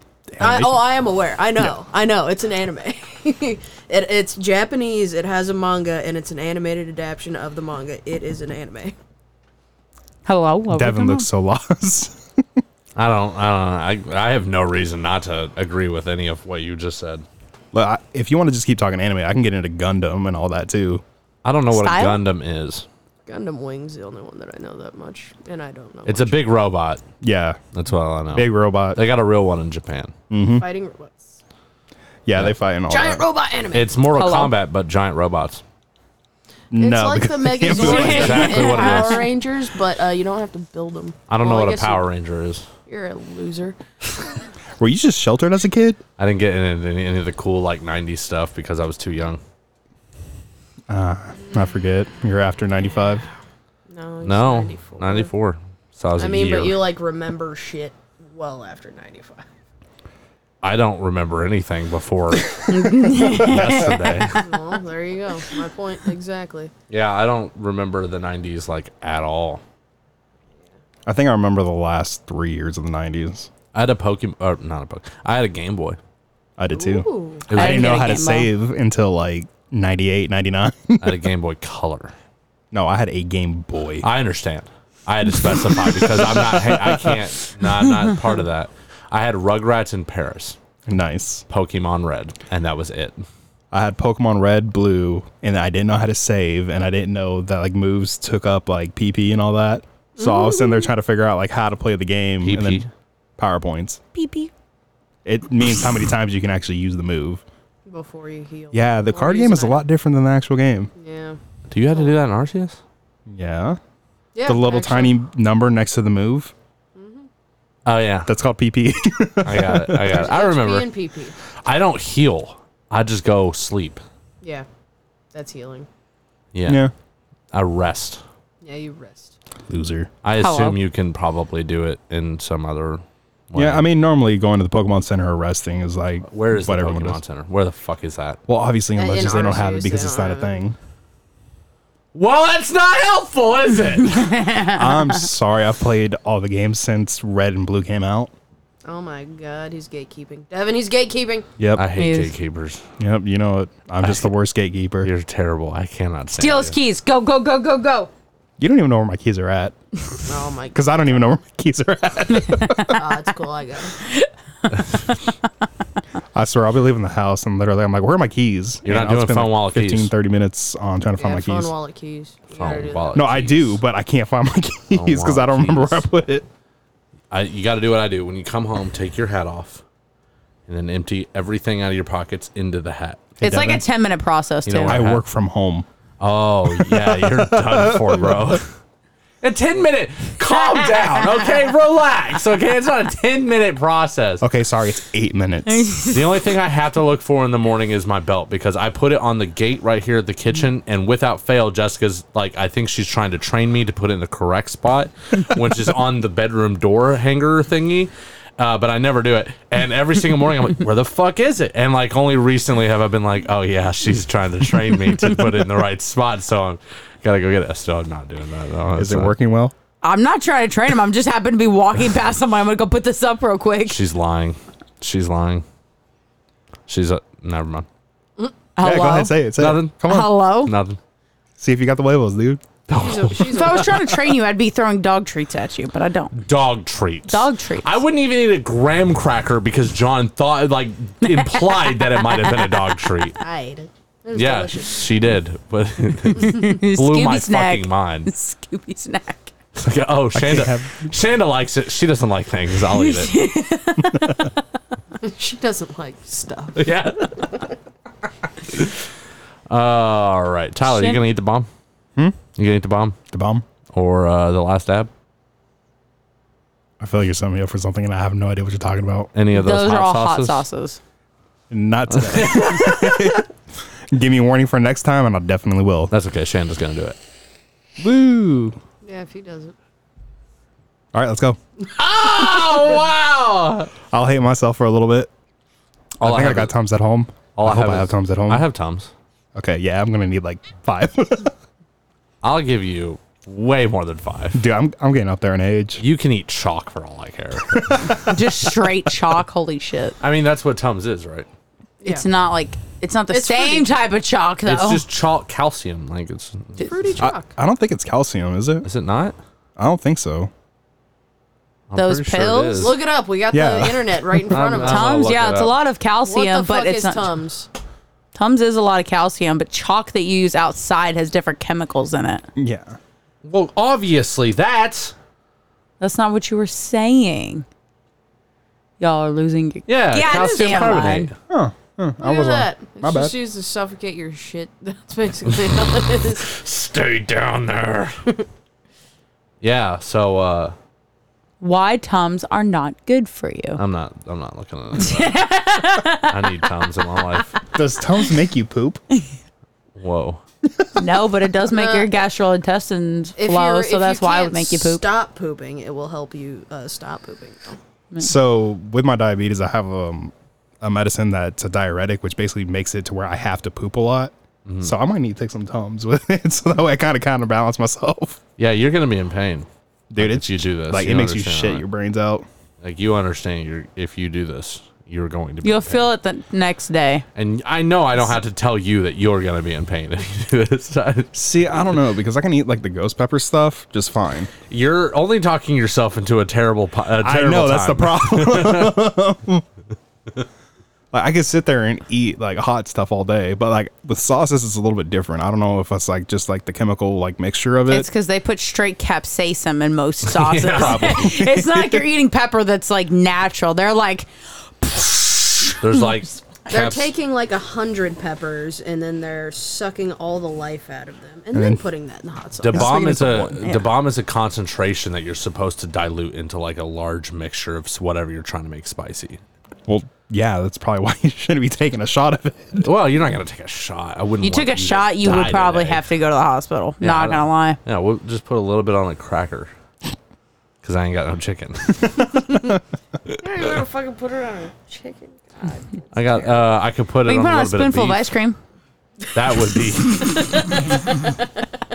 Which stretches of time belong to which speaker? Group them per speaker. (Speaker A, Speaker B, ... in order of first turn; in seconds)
Speaker A: 0.3-0.8, 10.7-12.2, 17.7-21.0, 27.2-27.6, 28.3-29.0, 30.3-30.6, 32.2-33.2, 36.7-38.6, 44.8-46.0, 50.9-53.2, 63.1-63.9, 71.0-73.5, 76.6-81.2, 82.7-84.1, 85.3-87.3, 90.9-91.5, 93.7-102.9, 103.4-104.0, 105.2-107.4, 108.7-110.9, 113.3-113.8, 114.4-116.5, 118.2-120.2, 126.6-126.9, 129.7-130.1, 133.5-137.2, 138.5-140.8, 144.7-148.3, 151.6-151.8, 153.0-155.1, 158.6-159.7, 160.7-163.1, 166.3-171.7, 173.1-176.4, 183.4-183.8, 184.9-185.9, 186.7-188.6, 194.4-195.9, 218.9-219.7, 228.8-230.3, 231.6-232.6, 250.3-251.1, 263.3-263.6, 267.0-269.3, 271.7-273.5, 274.1-276.1, 278.0-278.8, 281.1-281.6, 284.1-285.3, 286.2-288.6, 289.6-291.5, 294.5-296.0, 297.7-298.7, 307.2-308.9, 309.8-310.5, 313.5-314.4, 322.6-323.0, 331.5-333.3, 347.7-349.0, 358.2-368.4, 370.1-372.4, 381.3-384.5, 387.2-389.6, 391.1-398.1, 400.7-402.1, 411.5-411.8, 412.7-413.7, 419.9-422.9, 432.5-432.8
Speaker B: 0.4-8.9, 23.2-26.4, 30.6-31.4, 32.9-33.9, 36.7-42.0, 42.9-43.8, 53.9-55.3, 56.2-59.4, 64.4-66.7, 76.7-77.5, 100.2-100.8, 107.9-109.8, 111.0-111.4, 114.3-115.2, 117.0-117.3, 120.1-121.3, 125.3-125.9, 128.6-129.3, 138.9-140.6, 148.8-151.5, 160.2-160.9, 162.9-164.0, 171.2-173.4, 232.9-233.9, 243.4-245.0, 255.2-256.9, 279.0-279.7, 303.3-303.9, 306.8-307.5, 312.8-315.1, 316.3-317.7, 330.2-330.9, 332.2-336.4, 351.7-352.1, 353.4-357.8, 406.7-413.1, 433.4-436.5, 440.1-441.4
Speaker C: 10.2-11.3, 21.7-22.2, 34.1-34.5, 38.2-39.2, 62.7-64.2, 77.5-78.5, 104.1-104.5, 130.4-130.8, 144.1-145.2, 151.9-152.3, 156.3-158.1, 183.4-185.0, 190.8-191.3, 195.7-196.2, 220.0-224.0, 228.8-229.4, 230.0-230.7, 233.5-236.4, 237.3-238.0, 241.2-242.8, 246.3-249.5, 252.9-254.5, 260.8-261.2, 269.5-271.0, 298.2-300.1, 302.0-305.0, 311.9-312.9, 314.8-317.3, 318.3-322.5, 326.0-327.6, 329.0-331.3, 341.6-343.8, 345.0-346.6, 350.9-355.0, 375.6-377.2, 397.9-404.3, 404.8-406.0, 424.4-427.8, 437.2-438.6
Speaker D: 12.9-17.2, 21.4-22.9, 26.1-27.0, 27.7-30.1, 33.7-35.6, 37.7-39.3, 41.3-42.7, 46.2-49.4, 54.2-56.8, 60.6-62.6, 63.2-64.5, 66.9-69.6, 73.7-76.0, 77.5-78.0, 81.0-82.1, 84.0-90.6, 91.5-93.2, 102.4-102.9, 111.7-112.8, 117.8-118.3, 119.4-120.9, 121.6-124.0, 126.5-126.8, 127.5-128.2, 130.2-133.8, 136.3-138.4, 142.1-144.3, 151.7-152.8, 155.0-156.8, 168.8-170.1, 172.5-173.8, 174.9-176.0, 177.3-179.8, 180.7-183.3, 184.7-185.2, 186.2-188.6, 189.4-194.4, 196.1-219.3, 223.9-225.6, 226.9-227.9, 229.6-230.0, 230.6-231.0, 232.9-233.8, 236.3-243.4, 244.3-248.3, 249.7-253.4, 256.8-257.6, 258.7-258.9, 259.7-261.7, 262.5-263.2, 263.9-265.1, 269.4-270.6, 272.1-273.4, 276.1-277.2, 281.9-283.9, 286.2-286.7, 287.6-289.1, 292.4-294.6, 296.0-298.1, 300.2-301.5, 304.6-306.9, 308.8-309.4, 311.9-313.0, 314.5-315.7, 323.4-325.1, 329.9-331.3, 336.4-338.1, 339.6-340.7, 343.8-345.4, 346.3-347.6, 349.9-350.4, 364.6-364.9, 368.6-371.9, 372.8-376.0, 377.4-381.8, 384.7-389.0, 400.3-401.3, 405.8-407.1, 412.6-419.4, 422.8-426.1, 427.0-429.7, 430.8-432.4, 436.1-438.3, 439.3-440.7